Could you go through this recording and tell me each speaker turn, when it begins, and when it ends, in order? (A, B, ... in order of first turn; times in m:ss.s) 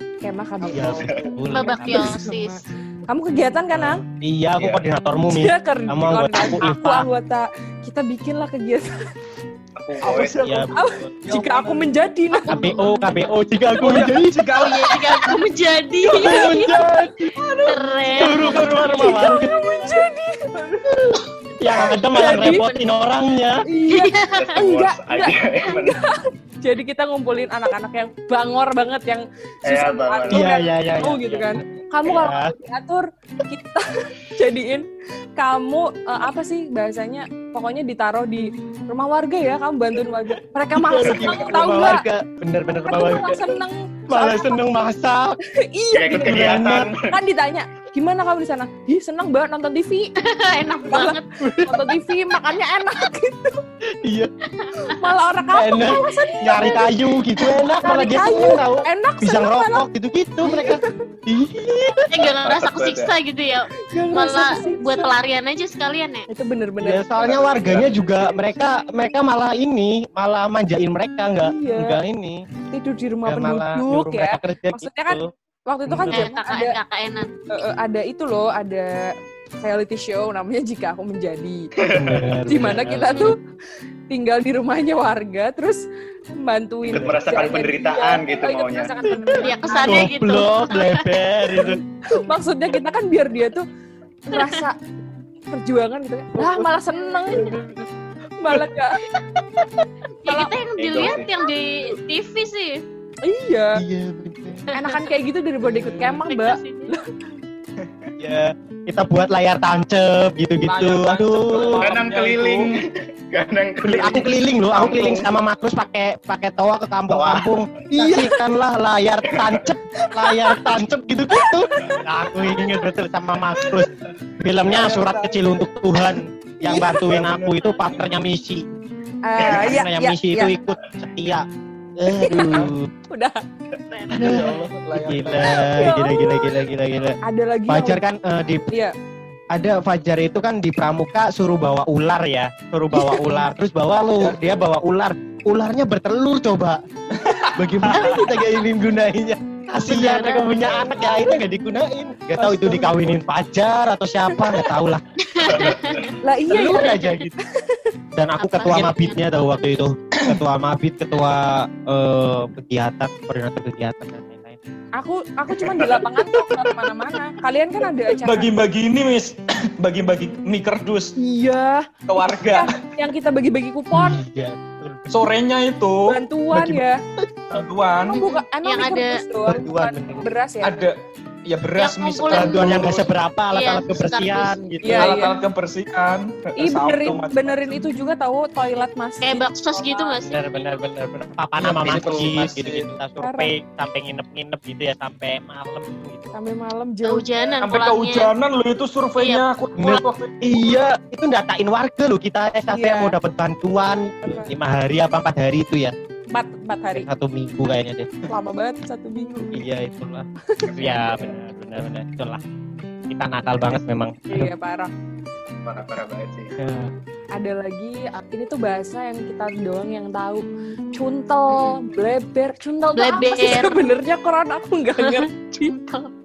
0:00.2-0:04.0 A
0:00.6-0:01.2 B
0:00.7-0:02.2 C
0:01.5-0:02.6 D
0:03.7-0:07.1 C
0:04.6-0:04.8 E
0:05.1-0:09.0 A
0:09.8-0:10.5 E
0:10.0-0:10.7 B
0:10.4-0:11.8 C
0:10.7-0:12.9 A
0:12.5-0:14.4 C
0:13.8-0:15.3 B
0:14.6-0:16.8 D
0:16.2-0:17.2 C
0:16.3-0:16.6 B
0:17.5-0:17.8 B
0:17.6-0:18.9 D
0:18.2-0:19.6 C
0:18.2-0:21.2 A
0:21.6-0:23.6 C
0:21.9-0:22.8 A
0:23.7-0:42.0 A
0:23.9-0:24.5 D
0:24.3-0:26.0 E
0:29.7-0:30.5 E
0:30.3-0:32.5 C
0:40.7-0:45.4 C
0:42.8-0:44.6 A
0:45.5-0:46.6 A
0:45.9-0:47.1 E
0:46.2-0:46.9 C
0:47.1-0:50.2 A
0:50.2-0:51.2 D
0:50.9-0:53.6 A
0:51.4-0:51.8 C
0:54.0-0:54.3 C
0:54.6-0:54.9 D
0:54.8-0:56.9 A
0:55.5-1:02.1 C
0:57.4-0:59.9 A
1:00.4-1:00.9 A
1:02.1-1:06.3 D
1:02.4-1:03.1 E
1:03.8-1:05.1 A
1:06.3-1:07.1 A
1:06.8-1:12.4 C
1:07.2-1:08.0 E
1:11.4-1:12.0 A
1:12.7-1:16.8 A
1:13.3-1:15.3 C
1:15.9-1:16.3 C
1:16.1-1:17.3 D
1:17.5-1:21.7 A
1:21.8-1:22.7 E
1:21.9-1:23.3 C
1:22.5-1:23.4 A
1:24.1-1:25.8 A
1:26.4-1:30.1 A
1:26.9-1:29.1 E
1:26.9-1:27.5 C
1:29.1-1:31.8 C
1:29.4-1:31.1 D
1:31.6-1:33.7 A
1:34.3-1:34.8 A
1:34.3-1:34.6 D
1:35.5-1:37.6 A
1:36.4-1:36.7 C
1:37.4-1:37.7 C
1:38.4-1:39.0 A
1:40.2-1:42.8 D
1:40.8-1:41.3 E
1:43.2-1:43.8 A
1:43.8-1:44.7 C
1:44.7-1:45.1 D
1:44.7-1:47.1 A
1:46.2-1:46.9 D
1:47.8-1:48.1 B
1:48.2-1:51.8 C
1:50.6-1:52.8 B
1:51.6-1:55.3 E
1:53.8-2:08.6 C
1:57.1-1:57.5 E
1:59.3-1:59.7 E
2:00.4-2:00.7 A
2:04.6-2:05.6 B
2:06.6-2:07.8 B
2:09.2-2:10.6 A
2:09.4-2:11.4 C
2:12.0-2:12.9 C
2:12.2-2:13.4 A
2:14.1-2:15.8 B
2:14.1-2:17.2 C
2:15.3-2:16.6 A
2:17.2-2:18.0 A
2:17.7-2:18.7 C
2:18.7-2:18.9 A
2:19.5-2:26.8 C
2:22.9-2:23.5 A
2:27.1-2:28.3 B
2:27.6-2:35.8 C
2:29.9-2:30.8 D
2:32.4-2:33.2 B
2:35.2-2:36.1 D
2:35.5-2:36.2 E
2:36.2-2:37.9 A
2:36.5-2:37.4 C
2:36.6-2:37.1 D
2:38.2-2:44.6 C
2:38.4-2:39.6 D
2:40.2-2:40.4 B
2:45.0-2:48.5 A
2:45.6-2:46.0 E
2:48.2-2:51.1 B
2:51.2-2:54.2 A
2:52.1-2:52.8 B
2:53.9-2:55.1 C
2:55.1-2:56.8 B
2:56.1-2:57.0 A
2:57.5-2:58.2 B
2:58.1-3:00.9 A
2:58.1-2:59.2 D
2:59.4-3:00.3 C
3:00.6-3:03.1 B
3:01.8-3:05.0 D
3:02.3-3:05.2 C
3:04.8-3:05.3 A
3:04.8-3:07.9 B
3:06.6-3:10.2 A
3:09.2-3:10.5 D
3:10.2-3:16.3 C
3:11.6-3:12.9 B
3:13.2-3:13.5 A
3:16.3-3:17.3 A
3:17.0-3:18.3 D
3:17.6-3:20.8 B
3:19.2-3:19.4 D
3:19.8-3:26.0 C
3:22.7-3:23.2 A
3:24.2-3:24.5 A
3:26.3-3:27.1 A
3:26.9-3:28.1 C
3:28.3-3:29.5 A
3:29.5-3:32.4 C
3:30.5-3:31.1 A
3:30.7-3:31.2 E
3:33.1-3:34.5 C
3:34.3-3:34.9 A
3:35.6-3:36.5 E
3:36.6-3:36.9 C
3:37.4-3:45.8 A
3:43.0-3:43.8 D
3:45.0-3:46.1 D